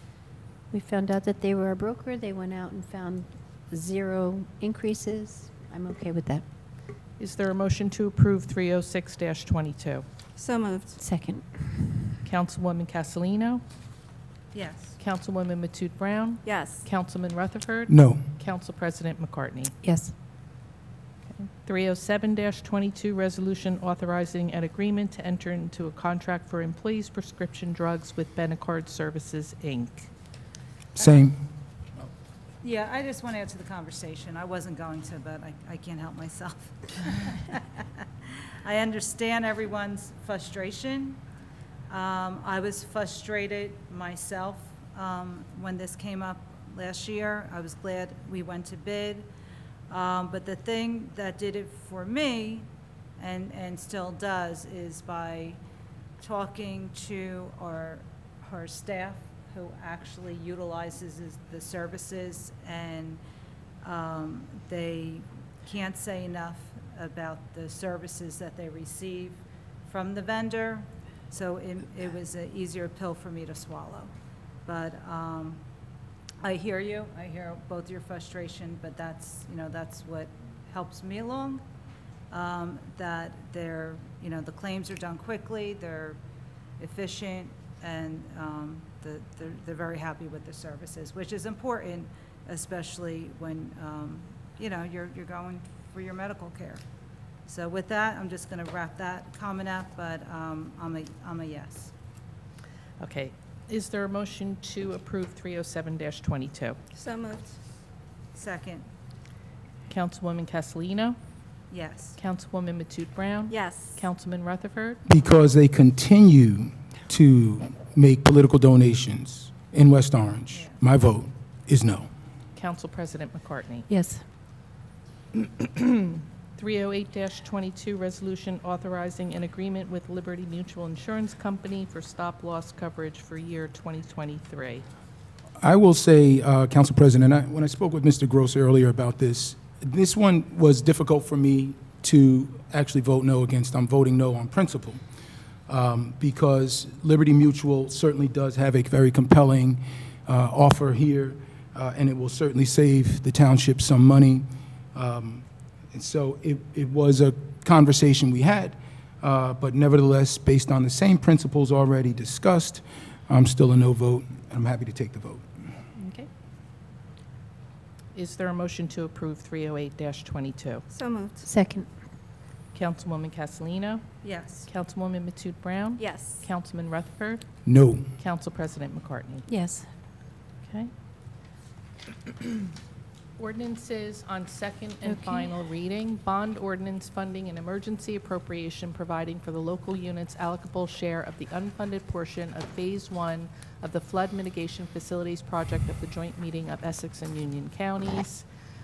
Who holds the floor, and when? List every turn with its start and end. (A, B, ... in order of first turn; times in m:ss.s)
0:00.7-0:06.4 A
0:07.2-0:10.0 B
0:10.4-0:11.0 C
0:11.0-0:12.1 A
0:12.2-0:13.6 B
0:14.5-0:15.0 D
0:15.0-0:19.7 B
0:16.4-0:16.8 C
0:17.9-0:18.2 E
0:19.8-0:20.1 A
0:21.4-0:30.1 B
0:30.9-0:31.4 E
0:32.6-0:41.2 D
0:41.9-0:49.3 D
0:49.9-0:52.7 D
0:53.2-0:55.6 D
0:56.2-1:03.2 D
1:03.8-1:14.1 D
1:14.6-1:15.6 D
1:16.4-1:21.6 D
1:22.3-1:26.2 D
1:26.8-1:36.8 D
1:37.5-1:41.9 D
1:43.0-1:46.8 B
1:47.0-1:47.5 C
1:48.3-1:48.8 D
1:49.9-1:51.2 B
1:51.7-1:52.2 D
1:52.2-1:55.0 B
1:53.5-1:53.9 C
1:55.0-2:02.1 E
2:00.5-2:00.8 D
2:02.5-2:03.9 B
2:03.9-2:04.2 A
2:05.6-2:14.8 B
2:15.6-2:25.0 E
2:25.7-2:45.4 E
2:46.0-2:46.3 A
2:48.1-2:50.8 B
2:50.9-2:51.5 C
2:51.4-2:51.9 A
2:52.7-2:54.0 B
2:54.2-2:54.6 D
2:54.6-2:57.4 B
2:56.0-2:56.4 C
2:57.6-2:58.0 E
2:58.2-2:59.4 B
2:59.5-2:59.9 A
3:00.6-3:00.9 B
3:03.4-3:18.4 B
3:05.0-3:05.5 A